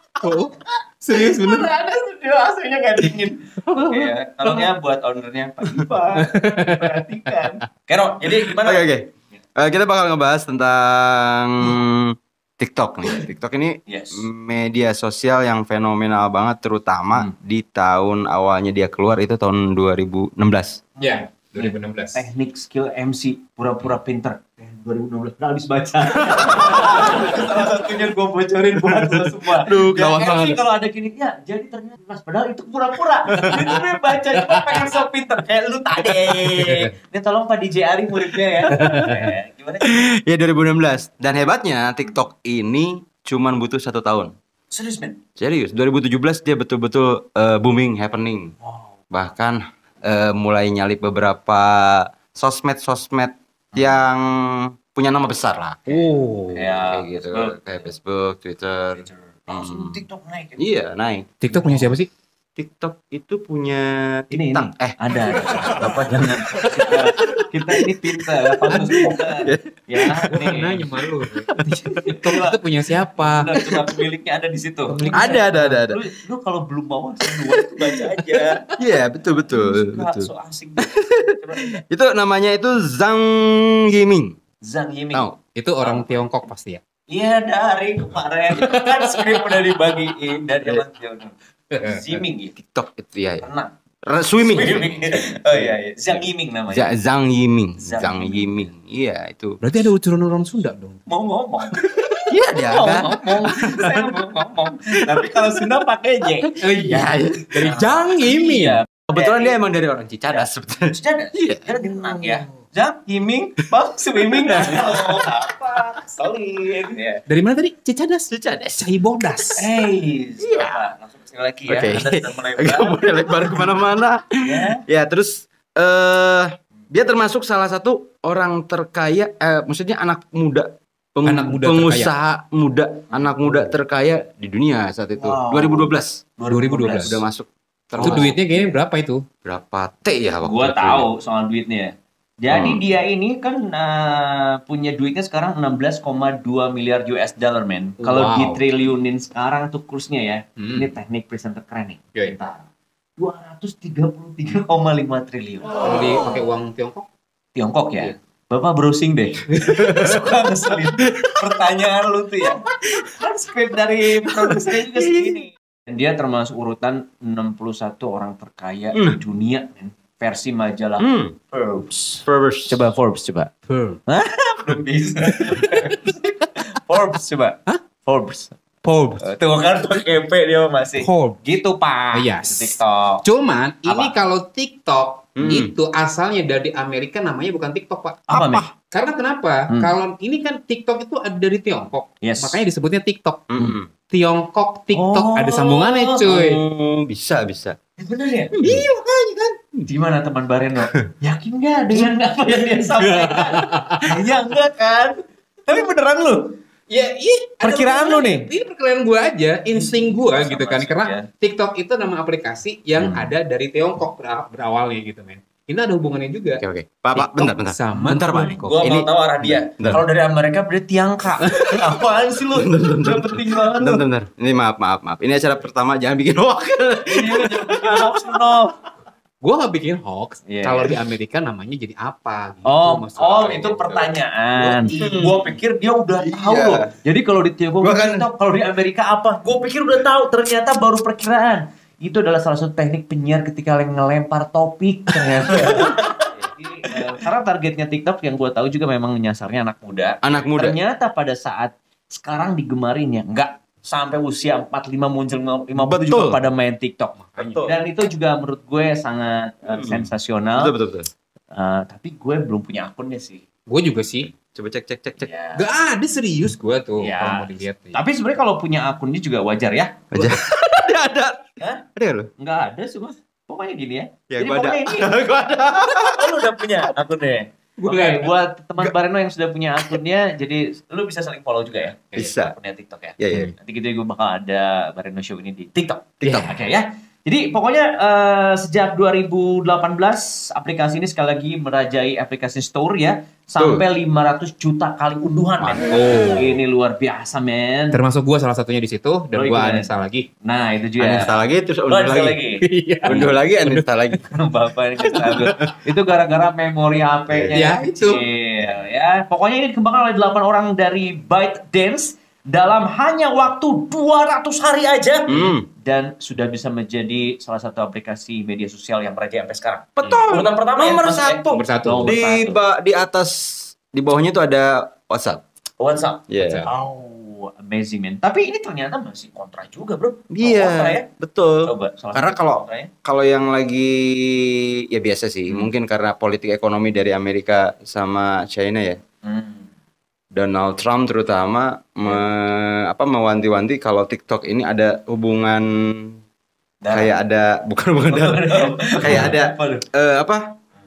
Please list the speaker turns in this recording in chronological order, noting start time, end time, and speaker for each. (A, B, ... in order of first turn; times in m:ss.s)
0:00.2-0:01.7 A
0:01.1-0:08.9 B
0:03.7-0:04.6 A
0:06.2-0:07.6 A
0:08.4-0:20.8 C
0:13.9-0:14.3 B
0:21.0-0:40.1 B
0:21.0-0:22.2 A
0:26.1-0:27.7 C
0:28.7-0:30.6 C
0:33.3-0:33.8 C
0:36.6-0:36.9 A
0:38.6-0:38.9 C
0:38.8-0:39.3 A
0:39.8-0:44.3 C
0:44.7-0:45.2 B
0:45.4-0:48.5 C
0:48.6-0:49.0 B
0:49.1-0:56.0 C
0:53.7-0:54.0 B
0:55.9-0:56.6 A
0:55.9-0:57.9 B
0:56.6-1:00.0 C
0:58.9-1:00.6 B
1:00.6-1:01.9 C
1:01.4-1:02.1 A
1:01.6-1:01.8 B
1:02.6-1:10.2 C
1:04.3-1:10.9 B
1:08.8-1:09.1 A
1:10.3-1:11.5 A
1:11.4-1:12.3 C
1:11.6-1:12.6 B
1:12.2-1:13.5 A
1:13.1-1:18.6 B
1:14.9-1:15.8 A
1:15.1-1:16.0 C
1:17.3-1:18.0 C
1:18.8-1:24.4 C
1:19.1-1:21.8 B
1:24.6-1:25.3 B
1:25.6-1:26.8 A
1:25.8-1:26.2 B
1:27.1-1:32.5 B
1:28.6-1:29.8 C
1:31.7-1:32.0 A
1:32.6-1:33.4 C
1:33.4-1:33.7 B
1:34.1-1:39.6 C
1:34.4-1:36.9 B
1:37.8-1:38.7 B
1:39.6-1:41.0 A
1:41.1-1:49.6 B
1:42.2-1:44.1 C
1:45.3-1:45.7 C
1:46.6-1:48.8 A
1:46.8-1:47.8 C
1:49.1-1:51.7 C
1:50.3-1:57.2 B
1:52.1-1:52.4 A
1:54.2-1:55.3 C
1:57.3-1:59.6 A
1:58.3-1:58.8 C
1:59.6-2:03.8 B
2:00.4-2:00.8 C
2:01.7-2:16.2 C
2:04.4-2:04.8 B
2:11.3-2:12.1 A
2:13.4-2:13.7 A
2:15.2-2:17.2 B
2:16.5-2:17.2 A
2:17.0-2:18.4 C
2:18.0-2:18.4 B
2:18.0-2:19.2 A
2:19.4-2:21.1 C
2:20.4-2:32.7 B
2:22.5-2:22.8 C
2:28.0-2:28.6 A
2:30.6-2:30.9 A
2:33.2-2:35.8 B
2:35.8-2:37.1 A
2:37.6-2:53.5 B
2:39.6-2:40.2 C
2:44.3-2:45.4 C
2:51.0-2:51.4 C
2:52.2-2:52.8 C
2:53.7-2:54.0 A
2:54.1-2:58.5 B
2:55.6-2:55.9 A
2:58.8-2:59.2 A
2:59.2-3:03.2 B
3:01.0-3:01.4 A
3:02.1-3:02.7 A
3:03.2-3:13.5 A
3:03.8-3:04.2 B
3:05.4-3:05.7 C
3:08.3-3:08.7 B
3:08.3-3:08.7 C
3:12.2-3:12.6 B
3:13.5-3:13.9 C
3:14.1-3:16.6 A
3:14.9-3:16.2 B
3:16.3-3:17.8 C
3:18.0-3:18.5 B
3:18.5-3:18.9 C
3:18.6-3:19.6 A
3:19.9-3:26.6 B
3:20.8-3:21.1 C
3:23.0-3:24.0 A
3:26.9-3:36.6 A
3:27.6-3:28.5 B
3:29.7-3:31.3 B
3:33.0-3:33.3 B
3:36.6-3:40.0 C
3:37.1-3:38.8 A
3:37.9-3:44.0 B
3:42.6-3:48.6 C
3:47.0-3:48.8 B
3:49.4-3:53.8 A
3:50.5-3:50.9 B
3:52.6-4:20.7 B
3:53.2-3:55.6 C
3:54.8-3:55.1 A
3:56.2-3:56.9 C
3:57.8-3:58.3 C
4:05.2-4:06.0 C
4:10.2-4:10.8 C
4:15.8-4:16.4 C
4:17.2-4:17.7 A
4:17.4-4:17.8 C
4:19.7-4:21.1 C
4:21.5-4:23.4 B
4:23.7-4:24.3 A
4:24.3-4:25.3 C
4:25.2-4:25.6 B
4:25.6-4:28.0 A
4:27.0-4:30.4 B
4:30.1-4:31.4 C
4:31.6-4:31.8 B
4:32.0-4:32.3 C
4:32.4-4:35.1 B
4:34.3-4:36.9 C
4:35.9-4:58.0 B
4:37.8-4:38.3 A
4:42.2-4:42.6 C
4:43.2-4:43.5 C
4:46.2-4:46.6 C
4:53.6-4:53.8 C
4:55.6-4:56.4 C
4:55.9-4:56.5 A
4:57.9-5:00.3 A
4:59.3-5:01.4 B
5:01.0-5:02.4 C
5:01.9-5:03.3 B
5:02.6-5:03.9 A
5:03.0-5:04.2 C
5:04.2-5:22.6 B
5:05.0-5:05.4 A
5:07.3-5:07.6 C
5:07.5-5:08.2 A
5:15.3-5:15.7 C
5:20.0-5:25.4 C
5:20.0-5:20.3 A
5:21.5-5:22.1 A
5:25.8-5:31.1 B
5:26.3-5:26.7 C
5:26.4-5:26.7 A
5:30.3-5:39.0 C
5:31.6-5:32.9 B
5:39.2-5:39.7 B
5:40.3-5:46.2 C
5:46.8-5:47.2 B
5:46.9-5:50.5 C
5:48.1-5:49.9 B
5:49.1-5:49.3 A